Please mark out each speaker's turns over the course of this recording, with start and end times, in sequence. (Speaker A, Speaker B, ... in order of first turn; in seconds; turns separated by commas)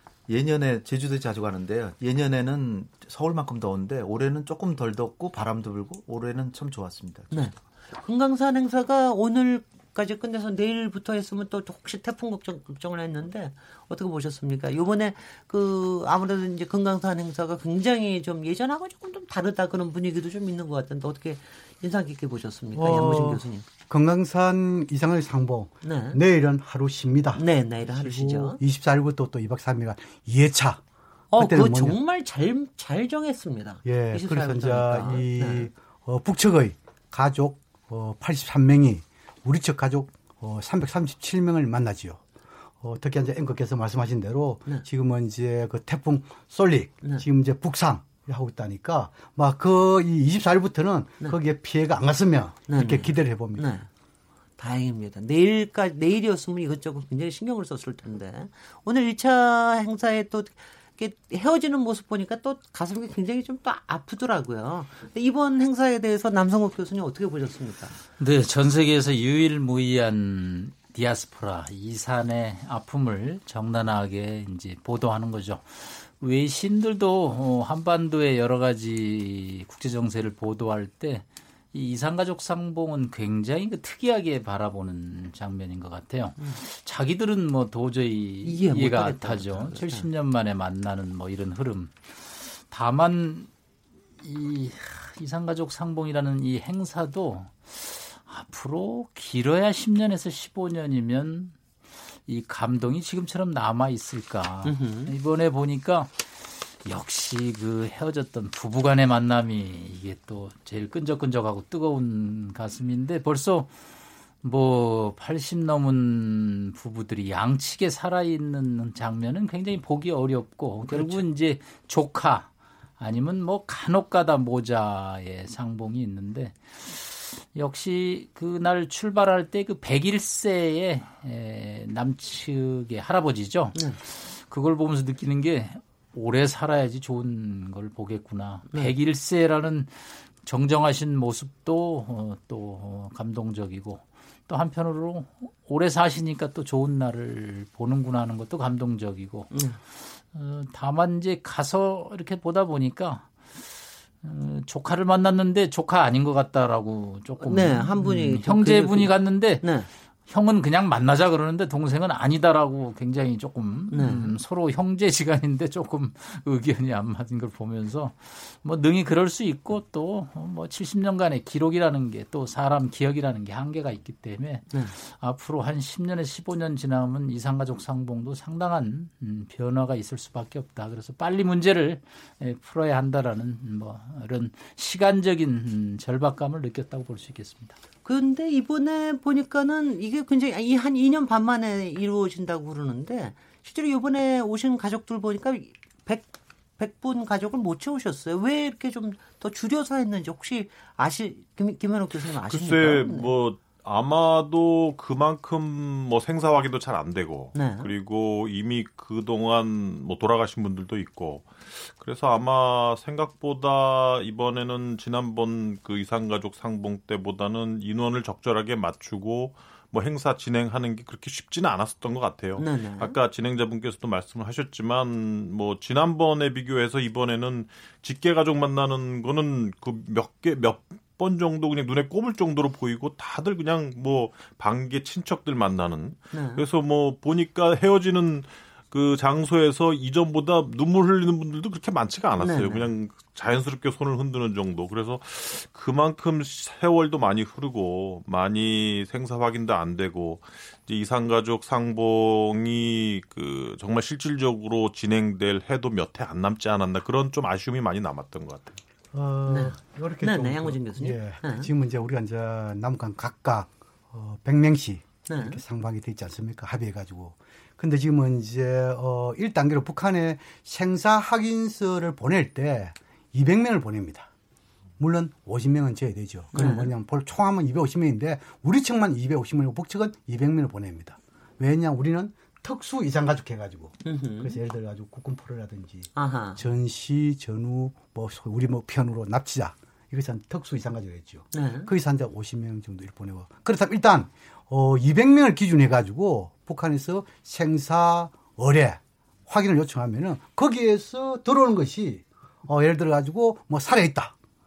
Speaker A: 0.3-7.4, Speaker B: 7.3-23.6, Speaker C: 22.8-30.8, Speaker B: 25.8-26.2, Speaker B: 27.4-28.6, Speaker B: 31.3-35.7, Speaker C: 31.4-32.0, Speaker C: 33.8-42.2, Speaker C: 42.8-53.7, Speaker B: 52.7-53.9, Speaker B: 54.6-68.0, Speaker D: 68.2-93.5, Speaker B: 88.4-90.0, Speaker D: 94.2-101.5, Speaker D: 102.3-113.8, Speaker B: 104.6-105.1, Speaker D: 114.4-122.5, Speaker B: 120.8-121.2, Speaker D: 123.0-159.7, Speaker B: 149.5-149.8, Speaker B: 157.4-159.9, Speaker D: 160.3-187.8, Speaker B: 163.9-164.3, Speaker B: 188.0-203.3, Speaker E: 202.5-258.8, Speaker B: 207.5-207.9, Speaker B: 222.6-223.2, Speaker B: 236.3-236.6, Speaker B: 242.4-242.9, Speaker C: 259.1-274.3, Speaker B: 259.4-261.7, Speaker B: 265.3-265.6, Speaker C: 275.0-304.3, Speaker B: 276.5-276.9, Speaker B: 284.0-284.6, Speaker B: 286.1-286.6, Speaker B: 291.5-291.9